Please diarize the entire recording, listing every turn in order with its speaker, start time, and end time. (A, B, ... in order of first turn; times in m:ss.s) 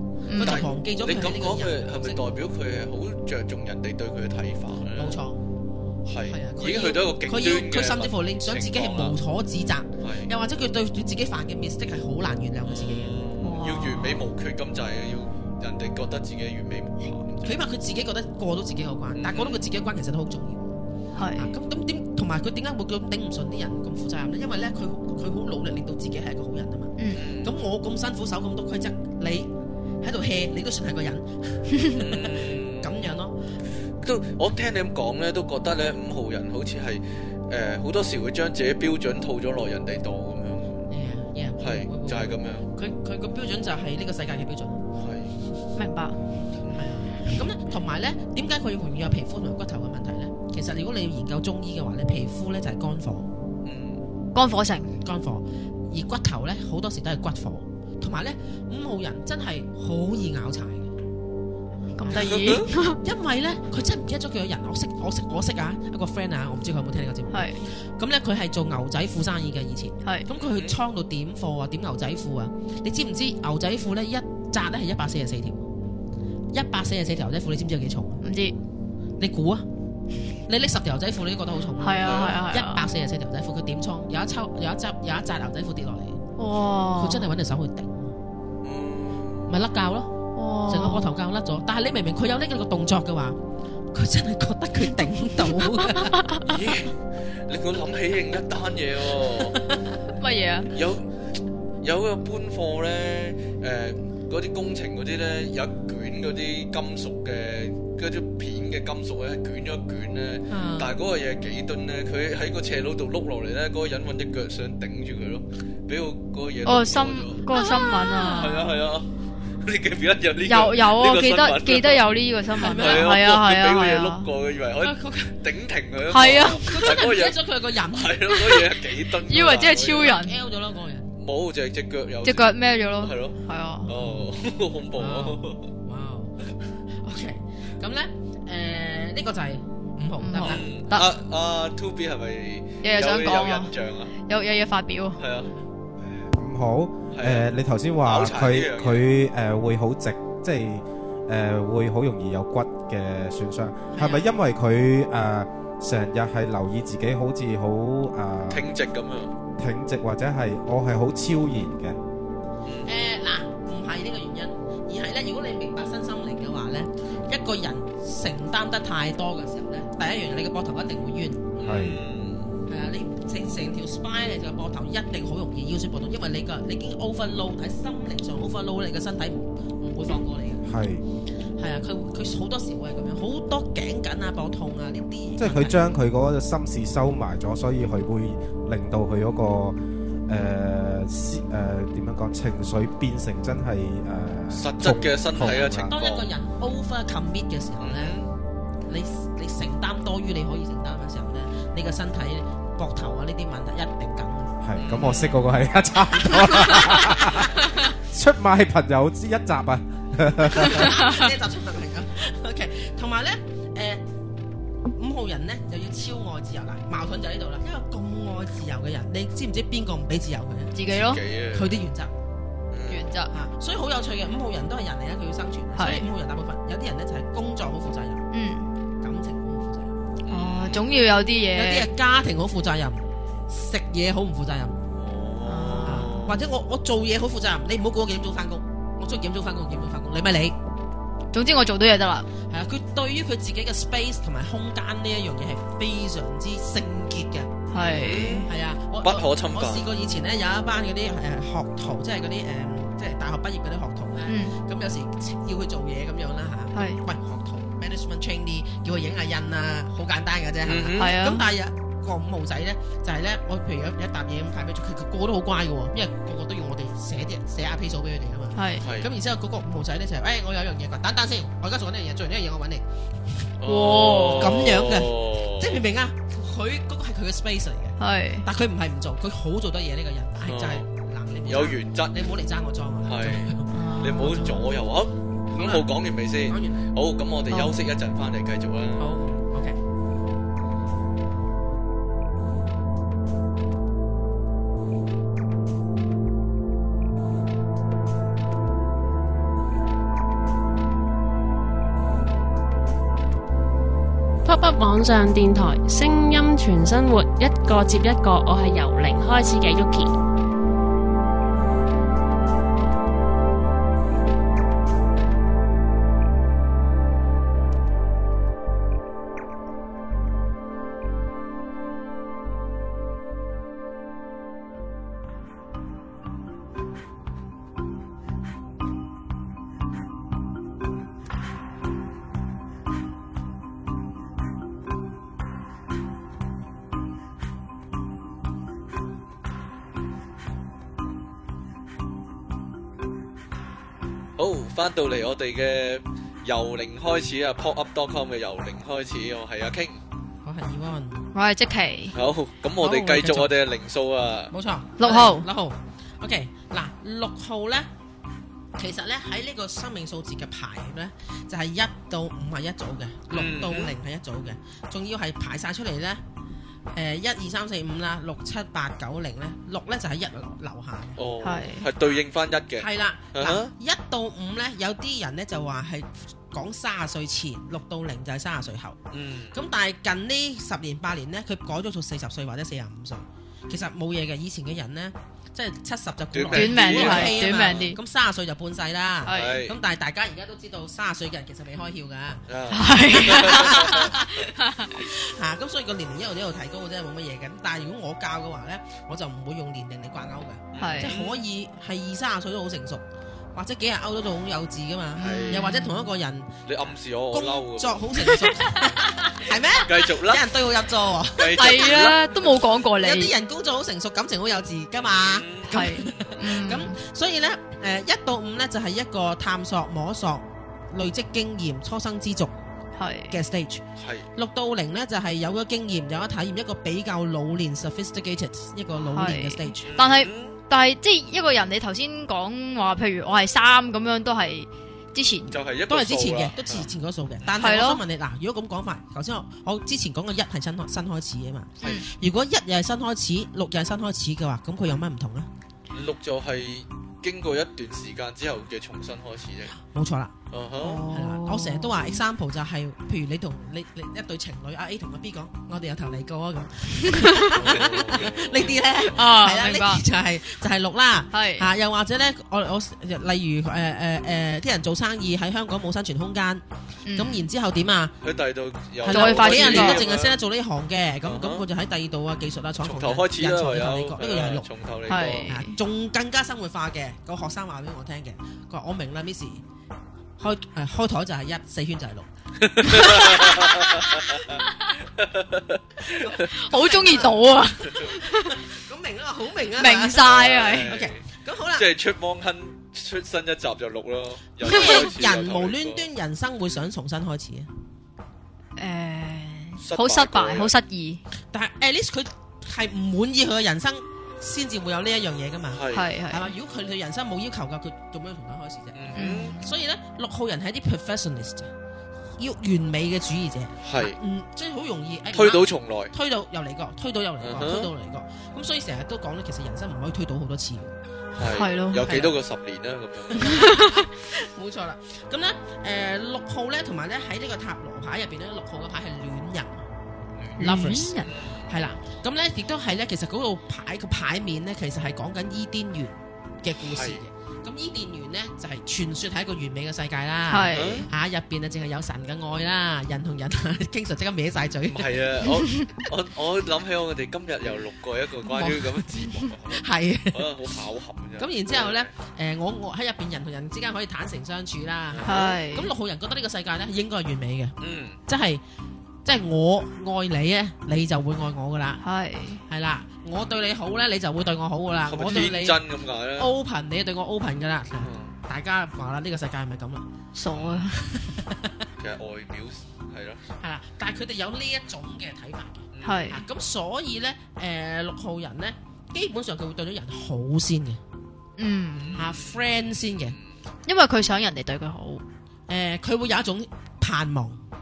0:00.3-0:00.7 A
0:00.3-0:02.2 B
0:00.4-0:05.2 C
0:04.9-0:05.4 B
0:06.0-0:09.2 C
0:06.3-0:13.2 B
0:10.0-0:10.3 C
0:12.6-0:17.6 C
0:13.4-0:14.2 A
0:17.4-0:20.8 B
0:19.2-0:19.6 C
0:21.1-0:21.5 A
0:21.3-0:29.5 B
0:27.1-0:27.5 C
0:30.0-0:33.4 B
0:32.0-0:33.0 C
0:34.0-0:40.9 C
0:40.9-0:44.8 B
0:41.6-0:42.7 C
0:44.9-0:45.3 C
0:45.8-0:46.2 A
0:46.6-0:46.9 C
0:46.7-0:53.3 B
0:53.6-0:54.0 C
0:54.3-0:54.9 A
0:55.0-1:00.9 B
1:02.0-1:03.0 A
1:02.0-1:15.6 B
1:02.1-1:02.6 C
1:07.3-1:07.6 A
1:10.4-1:10.8 C
1:16.5-1:18.2 B
1:18.2-1:18.5 A
1:19.2-1:19.6 B
1:20.4-1:26.2 B
1:21.8-1:22.9 A
1:22.0-1:22.4 C
1:26.4-1:27.3 A
1:26.9-1:28.1 B
1:28.6-1:29.5 C
1:29.5-1:30.1 B
1:30.3-1:31.1 A
1:30.7-1:33.4 B
1:33.9-1:36.2 B
1:36.0-1:36.5 A
1:36.4-1:39.7 C
1:40.2-1:40.7 A
1:40.7-1:41.1 C
1:41.8-2:10.2 C
1:50.5-1:50.9 B
1:56.6-1:58.7 A
2:00.5-2:04.3 A
2:02.6-2:03.2 B
2:04.8-2:05.4 B
2:06.1-2:07.1 A
2:06.3-2:08.3 B
2:08.3-2:10.3 A
2:09.9-2:11.1 B
2:11.2-2:15.7 C
2:12.2-2:13.9 A
2:14.0-2:14.3 B
2:14.9-2:20.7 B
2:20.2-2:21.1 A
2:20.3-2:24.1 C
2:22.8-2:25.2 A
2:25.2-2:25.5 C
2:26.2-2:38.7 D
2:27.1-2:27.5 C
2:28.0-2:29.1 C
2:33.9-2:34.3 B
2:38.5-2:39.3 C
2:39.6-2:42.0 D
2:42.6-2:42.9 C
2:42.8-2:51.5 B
2:51.6-2:52.5 C
2:51.6-2:52.0 D
2:52.7-3:00.6 B
3:00.6-3:01.0 D
3:01.6-3:05.8 B
3:05.4-3:15.9 D
3:14.5-3:16.3 C
3:15.4-3:18.2 B
3:17.8-3:18.3 C
3:18.9-3:24.5 B
3:24.6-3:31.0 D
3:24.8-3:25.4 C
3:30.4-3:34.0 B
3:30.9-3:31.2 A
3:35.0-3:42.1 B
3:40.7-3:41.2 A
3:40.9-3:41.8 C
3:42.7-3:43.1 C
3:42.9-3:43.3 A
3:43.3-3:48.2 B
3:45.8-3:46.1 A
3:48.3-3:48.7 A
3:49.0-3:50.0 B
3:50.2-3:50.9 C
3:50.3-3:51.9 A
3:51.5-3:54.8 B
3:55.0-3:56.4 C
3:55.4-3:56.3 A
3:55.8-4:00.6 B
4:01.3-4:02.3 A
4:02.5-4:07.7 B
4:07.7-4:08.5 A
4:07.7-4:08.5 C
4:08.5-4:32.8 B
4:09.0-4:09.8 C
4:14.3-4:14.5 A
4:16.7-4:17.0 A
4:20.6-4:21.2 C
4:21.0-4:21.4 A
4:28.5-4:28.8 A
4:28.8-4:29.1 C
4:33.6-4:35.8 C
4:33.6-4:34.6 A
4:33.8-4:44.6 B
4:38.0-4:38.5 A
4:40.4-4:40.9 C
4:41.4-4:42.2 C
4:43.0-4:49.1 C
4:43.7-4:44.6 A
4:45.5-4:45.9 B
4:46.4-4:46.9 B
4:47.5-4:47.8 A
4:49.0-4:49.8 B
5:04.4-5:10.1 E
5:44.4-5:50.0 C
5:50.4-5:51.3 B
5:51.3-5:52.1 A
5:52.1-5:54.5 C
5:52.8-5:53.5 B
5:54.5-5:57.9 B
5:55.0-5:55.5 A
5:58.8-6:06.2 B
6:03.3-6:03.9 C
6:06.9-6:11.2 B
6:11.2-6:13.7 C
6:11.4-6:11.9 A
6:12.8-6:19.0 B
6:19.1-6:19.6 C
6:19.5-6:32.4 B
6:26.3-6:27.8 C
6:26.5-6:28.0 A
6:29.2-6:29.6 A
6:29.3-6:29.7 C
6:32.5-6:34.1 C
6:32.7-6:35.0 A
6:33.1-6:34.3 B
6:34.9-6:43.0 B
6:40.7-6:41.3 C
6:40.8-6:41.1 A
6:43.5-6:46.5 B
6:45.2-6:46.1 A
6:45.2-6:45.7 C
6:46.6-6:48.0 C
6:47.3-6:52.2 B
6:49.8-6:50.5 C
6:51.3-6:52.4 C
6:51.5-6:53.3 A
6:52.9-7:02.5 B
6:55.1-6:56.0 C
6:55.7-6:57.0 A
7:03.0-7:03.4 A
7:03.3-7:03.8 B
7:04.0-7:04.3 C
7:04.3-7:09.9 B
7:09.0-7:15.6 A
7:09.8-7:10.6 C
7:15.5-7:16.9 C
7:15.9-7:25.5 B
7:17.5-7:18.0 A
7:25.9-7:29.8 C
7:29.8-7:30.3 B
7:30.5-7:31.1 C
7:30.8-7:32.2 A
7:31.1-7:46.6 B
7:37.1-7:37.5 A
7:37.5-7:39.0 C
7:39.1-7:40.0 A
7:41.3-7:41.7 A
7:47.0-7:47.5 A
7:47.1-7:48.1 B
7:48.2-7:50.4 C
7:49.0-7:59.6 B
7:49.1-7:50.0 A
7:51.2-7:51.6 C
7:52.8-7:55.5 C
7:55.1-7:55.8 A
8:00.4-8:02.3 B
8:02.6-8:06.3 C
8:02.8-8:04.5 B
8:06.0-8:10.2 B
8:06.4-8:08.6 A
8:09.8-8:11.0 A
8:10.2-8:11.2 C
8:10.8-8:11.9 B
8:11.8-8:16.1 C
8:14.6-8:17.7 B
8:14.6-8:15.1 A
8:18.8-8:21.2 A
8:19.8-8:20.7 C
8:21.5-8:31.7 B
8:25.7-8:26.1 C
8:25.9-8:26.5 A
8:28.9-8:29.6 C
8:29.1-8:29.7 A
8:32.4-8:41.0 B
8:33.8-8:34.2 C
8:35.3-8:36.1 C
8:37.4-8:37.9 C
8:41.4-8:43.6 C
8:41.5-8:42.4 A
8:43.4-8:49.8 B
8:43.4-8:44.0 A
8:50.6-8:51.3 A
8:50.6-9:05.4 B
8:51.2-8:51.7 C
8:56.8-8:57.2 C
9:00.5-9:01.1 A
9:00.7-9:01.1 C
9:04.9-9:12.1 C
9:05.4-9:05.9 A
9:08.5-9:08.8 B
9:09.7-9:10.5 B
9:11.4-9:17.7 B
9:15.1-9:15.6 C
9:15.2-9:15.9 A
9:17.8-9:18.2 C
9:18.3-9:18.6 B
9:19.2-9:22.0 B
9:22.0-9:22.6 A
9:22.7-9:25.8 B
9:25.1-9:26.5 C
9:26.4-9:30.0 B
9:28.0-9:28.3 C
9:30.3-9:31.0 A
9:30.5-9:30.9 C
9:31.0-9:31.7 B
9:32.0-9:33.4 C
9:33.6-9:41.0 B
9:35.9-9:36.3 C
9:36.0-9:36.4 A
9:41.6-9:42.2 A
9:41.9-9:43.5 C
9:42.2-9:43.4 B
9:43.8-9:45.2 A
9:45.7-9:47.6 B